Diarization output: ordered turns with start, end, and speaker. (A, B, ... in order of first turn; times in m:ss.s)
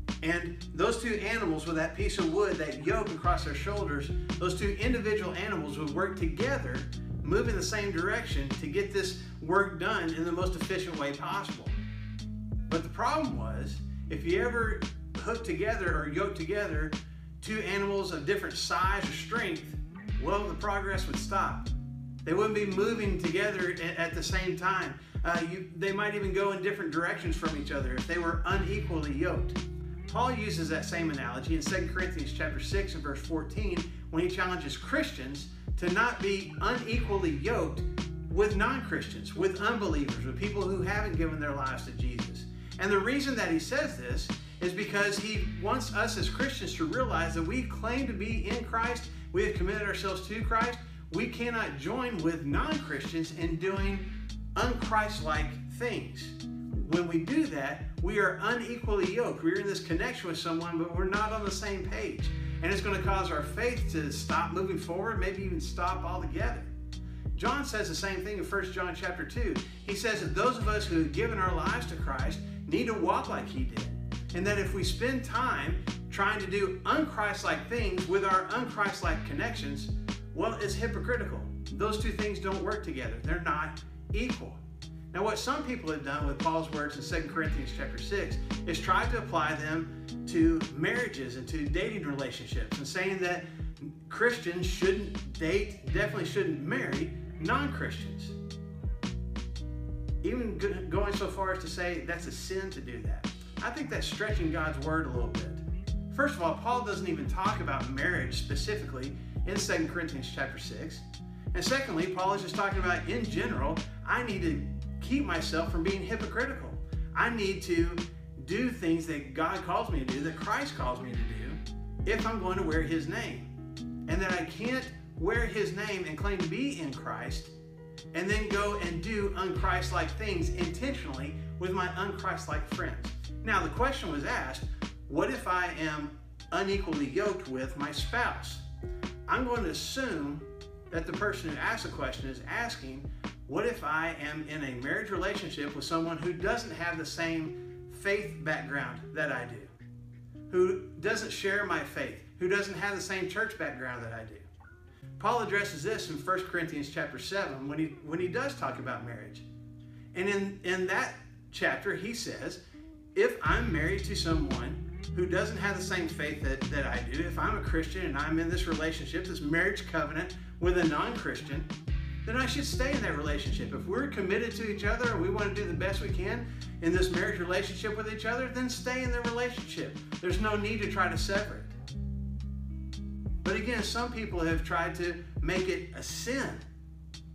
0:00.2-0:11.8 A
0:12.7-0:21.7 A
0:22.2-1:06.7 A
1:07.3-1:24.6 A
1:25.1-1:38.4 A
1:40.2-2:03.5 A
2:04.0-2:07.5 A
2:08.1-2:18.6 A
2:19.3-2:29.7 A
2:30.5-2:34.4 A
2:35.2-2:39.4 A
2:40.1-2:42.6 A
2:43.1-2:51.7 A
2:52.2-3:01.8 A
3:03.4-3:06.6 A